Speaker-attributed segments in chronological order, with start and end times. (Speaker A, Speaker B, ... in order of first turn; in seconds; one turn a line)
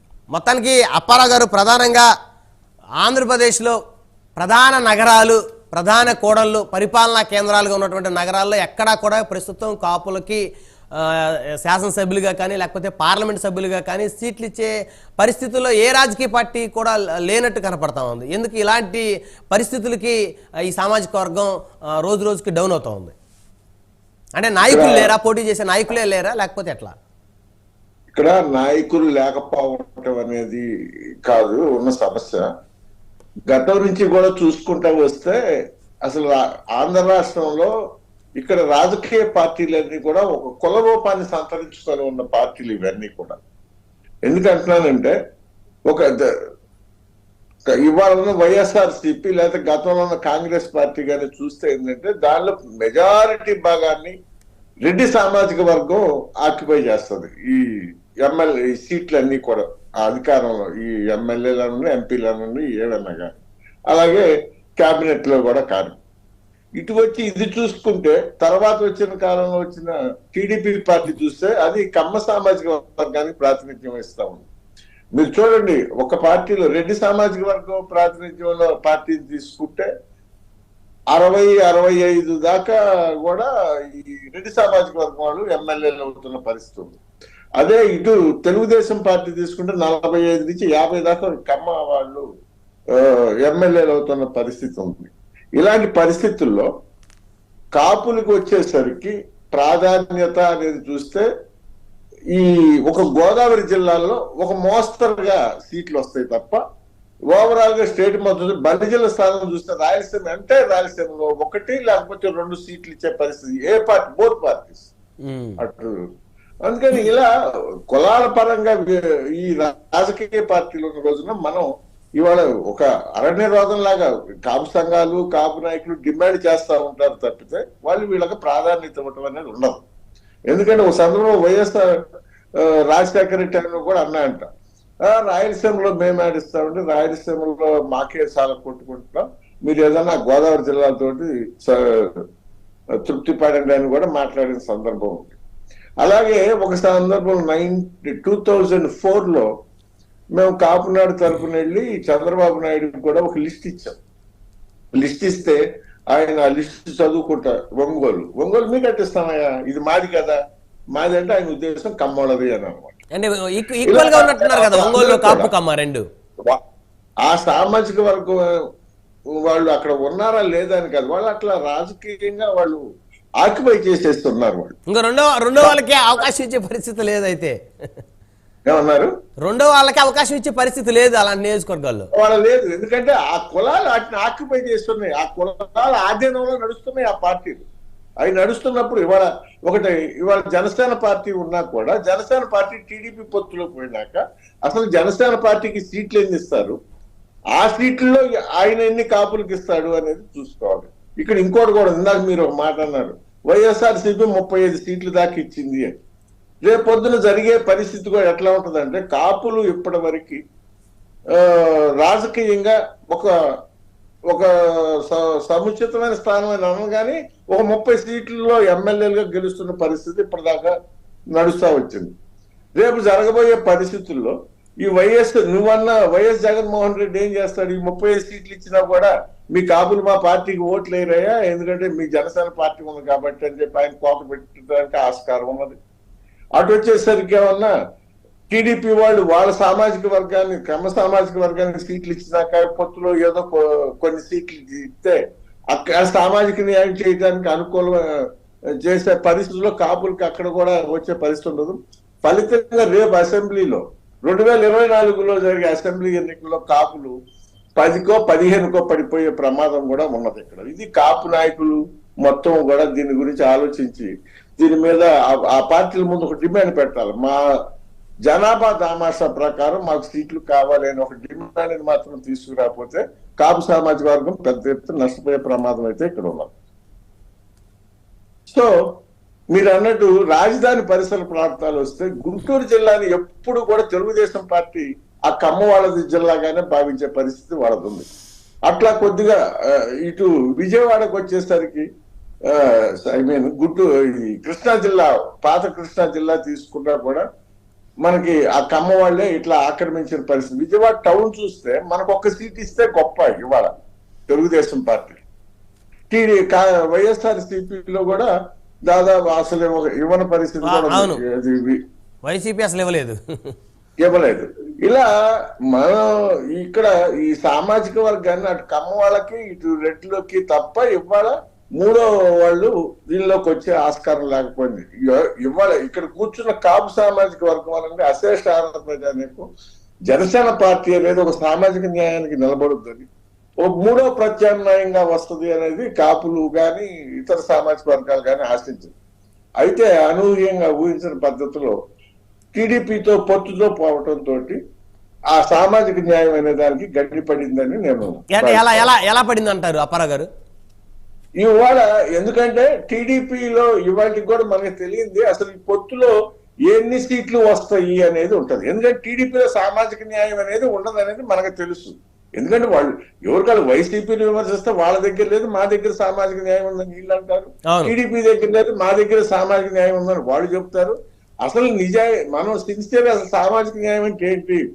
Speaker A: 0.3-2.1
Speaker A: 3.0-3.8
Speaker A: 4.4-20.2
Speaker A: 20.7-23.1
Speaker A: 24.4-26.9
Speaker B: 24.7-25.1
Speaker B: 28.1-30.6
Speaker B: 31.2-32.4
Speaker B: 33.5-35.4
Speaker B: 36.1-37.7
Speaker B: 38.4-43.4
Speaker B: 44.3-45.1
Speaker B: 47.9-54.1
Speaker B: 54.9-57.6
Speaker B: 58.2-63.4
Speaker B: 63.9-64.3
Speaker B: 64.8-66.0
Speaker B: 66.8-74.5
Speaker B: 75.2-79.9
Speaker B: 81.1-87.0
Speaker B: 87.6-92.2
Speaker B: 93.0-96.7
Speaker B: 97.8-101.3
Speaker B: 102.3-106.6
Speaker B: 107.3-114.9
Speaker A: 115.2-115.6
Speaker B: 115.6-115.9
Speaker B: 116.7-117.3
Speaker B: 117.9-121.7
Speaker B: 122.2-129.8
Speaker B: 130.5-131.9
Speaker B: 132.9-134.4
Speaker B: 135.1-142.1
Speaker B: 143.0-145.4
Speaker B: 146.0-149.5
Speaker B: 150.3-154.0
Speaker B: 155.0-155.6
Speaker B: 156.1-160.4
Speaker B: 160.9-163.0
Speaker A: 163.1-166.0
Speaker B: 163.9-165.5
Speaker B: 167.3-168.4
Speaker B: 169.4-172.8
Speaker B: 173.4-174.7
Speaker A: 174.9-177.6
Speaker B: 178.7-179.1
Speaker A: 179.4-182.1
Speaker B: 182.2-187.6
Speaker B: 188.2-196.8
Speaker B: 197.6-205.9
Speaker B: 206.7-210.4
Speaker B: 211.3-213.3
Speaker B: 215.0-220.7
Speaker B: 221.3-222.1
Speaker B: 222.8-235.8
Speaker B: 236.6-237.7
Speaker B: 238.5-245.2
Speaker B: 245.7-248.0
Speaker B: 248.8-257.1
Speaker B: 257.8-267.4
Speaker B: 268.3-276.5
Speaker B: 279.5-288.1
Speaker B: 288.7-289.4
Speaker B: 290.0-291.9
Speaker B: 292.5-297.2
Speaker B: 298.0-303.7
Speaker B: 304.3-305.2
Speaker B: 306.1-308.3
Speaker B: 308.9-311.8
Speaker A: 310.6-311.2
Speaker A: 312.2-313.5
Speaker B: 314.0-315.1
Speaker B: 315.7-329.4
Speaker B: 330.1-333.1
Speaker B: 333.6-338.9
Speaker B: 339.6-341.7
Speaker B: 342.6-344.6
Speaker B: 345.3-348.9
Speaker A: 348.3-350.3
Speaker B: 351.4-356.1
Speaker B: 356.7-370.9
Speaker B: 371.5-374.6